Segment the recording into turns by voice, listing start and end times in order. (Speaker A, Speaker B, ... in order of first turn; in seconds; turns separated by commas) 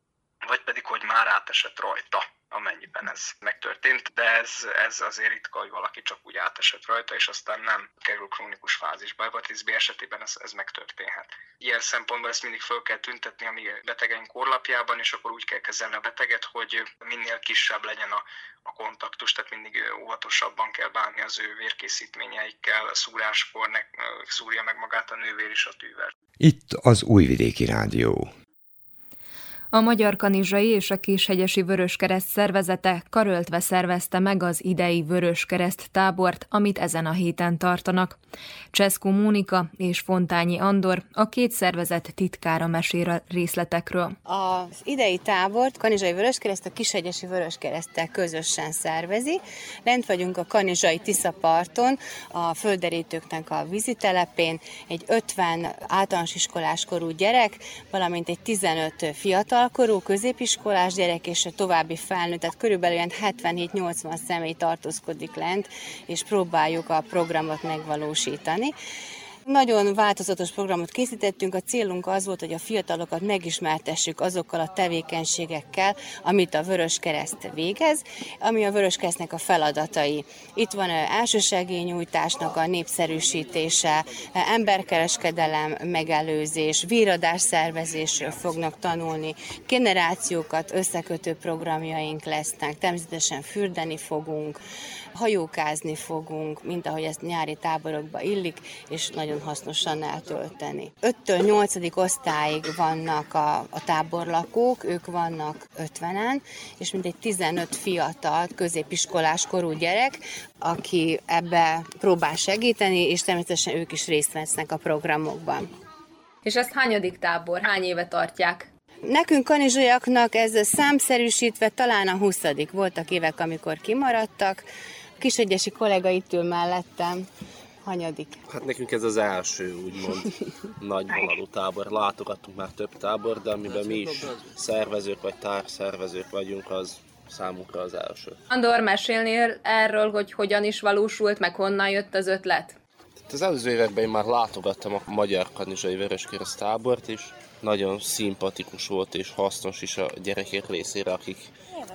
Speaker A: 0.4-26.1, Speaker B: 26.4-28.3, Speaker C: 29.7-38.2, Speaker C: 38.7-44.1, Speaker D: 44.3-68.7, Speaker D: 69.5-94.6, Speaker D: 95.2-115.7, Speaker C: 116.4-118.7, Speaker D: 119.0-124.6, Speaker D: 125.2-127.3, Speaker D: 127.8-128.4, Speaker E: 128.5-138.4, Speaker C: 138.5-142.8, Speaker E: 143.3-151.5